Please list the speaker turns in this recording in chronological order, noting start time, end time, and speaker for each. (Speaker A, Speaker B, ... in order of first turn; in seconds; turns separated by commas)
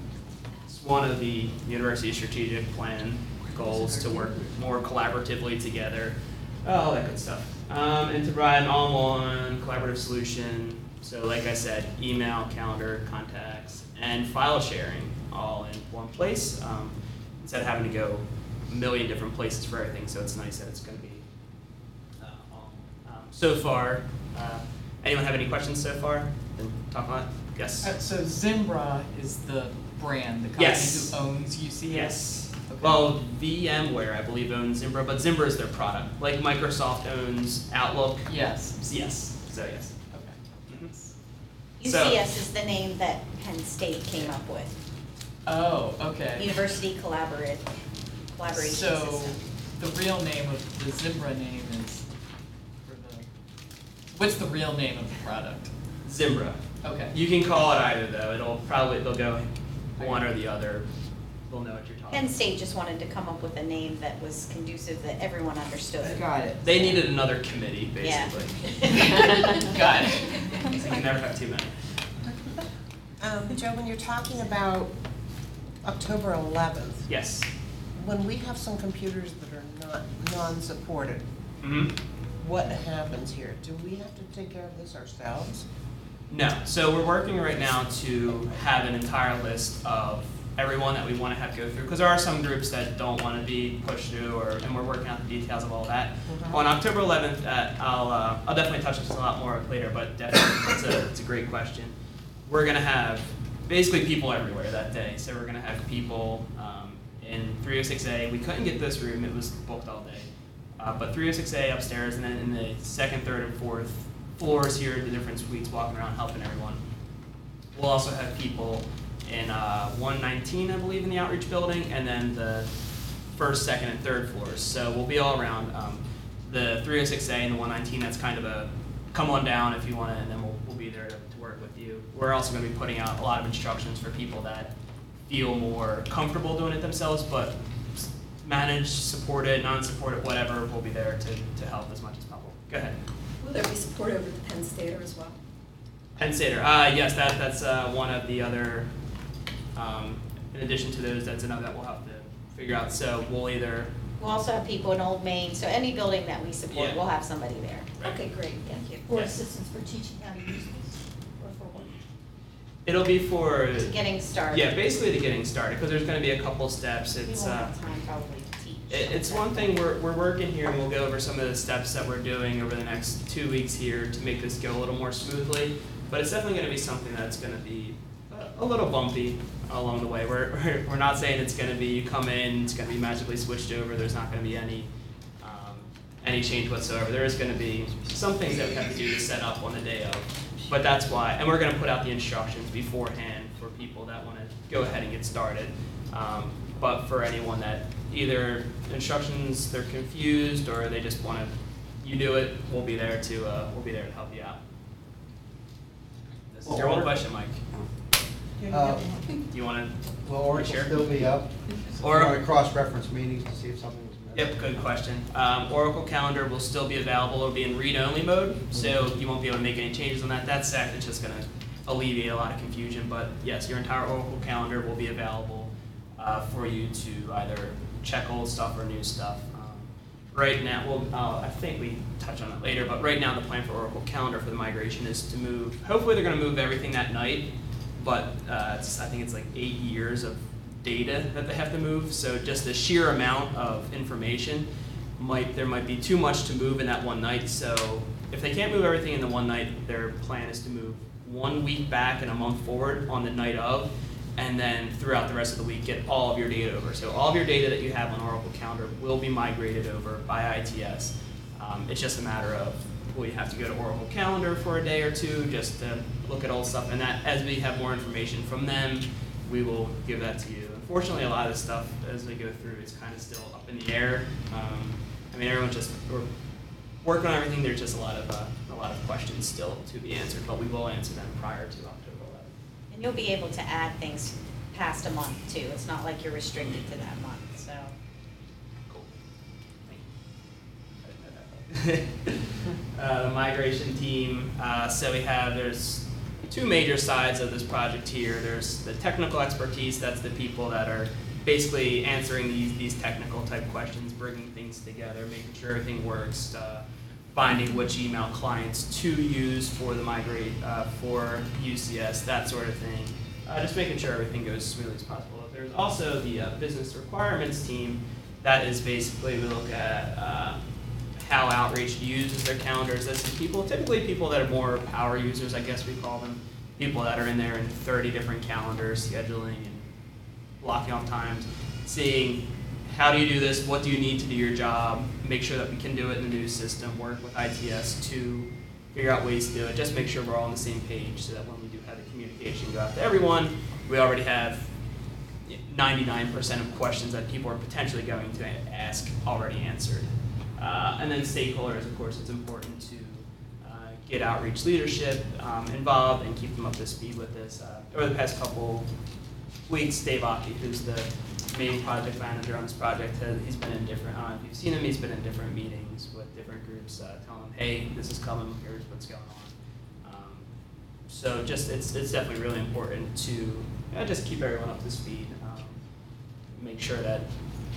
Speaker A: 0.7-21.2, Speaker B: 3.6-4.4, Speaker A: 22.2-27.9, Speaker B: 27.8-33.1, Speaker A: 30.6-31.2, Speaker A: 31.9-40.0, Speaker B: 38.2-38.7, Speaker A: 40.7-40.9, Speaker C: 41.8-44.7, Speaker A: 41.8-42.2, Speaker B: 45.5-46.6, Speaker C: 46.4-47.7, Speaker C: 48.3-49.4, Speaker B: 48.5-52.0, Speaker B: 52.8-53.2, Speaker B: 54.1-55.7, Speaker A: 56.0-60.9, Speaker B: 56.8-57.1, Speaker B: 60.0-60.3, Speaker A: 61.5-62.3, Speaker C: 62.1-66.2, Speaker B: 66.0-66.6, Speaker A: 66.6-68.6, Speaker C: 68.0-69.7, Speaker B: 69.1-70.8, Speaker A: 70.7-71.7, Speaker D: 72.2-72.7, Speaker D: 73.2-74.9, Speaker D: 75.8-77.1, Speaker A: 77.1-77.5, Speaker D: 77.9-81.2, Speaker A: 81.6-81.9, Speaker D: 82.4-85.7, Speaker A: 86.3-101.9, Speaker A: 102.5-116.8, Speaker A: 117.7-122.7, Speaker A: 123.3-134.7, Speaker A: 135.3-142.9, Speaker E: 143.4-145.4, Speaker A: 146.2-148.9, Speaker A: 149.7-153.9, Speaker C: 154.2-157.9, Speaker A: 156.7-157.0, Speaker E: 158.0-159.0, Speaker F: 159.1-161.9, Speaker A: 162.8-163.9, Speaker C: 163.8-164.7, Speaker A: 164.5-167.7, Speaker C: 167.2-169.7, Speaker A: 168.9-184.9, Speaker A: 185.4-204.6, Speaker A: 206.5-207.6, Speaker G: 206.6-207.1, Speaker G: 208.7-209.1, Speaker D: 208.7-209.1, Speaker A: 209.5-210.9, Speaker G: 210.2-214.8, Speaker A: 212.0-212.4, Speaker A: 214.3-276.3, Speaker A: 277.0-282.5, Speaker C: 282.9-287.9, Speaker A: 291.0-306.8, Speaker A: 307.3-320.6, Speaker A: 321.2-329.9, Speaker A: 330.6-344.7, Speaker A: 345.4-358.9, Speaker A: 359.7-370.5, Speaker A: 371.1-375.8, Speaker A: 376.5-377.2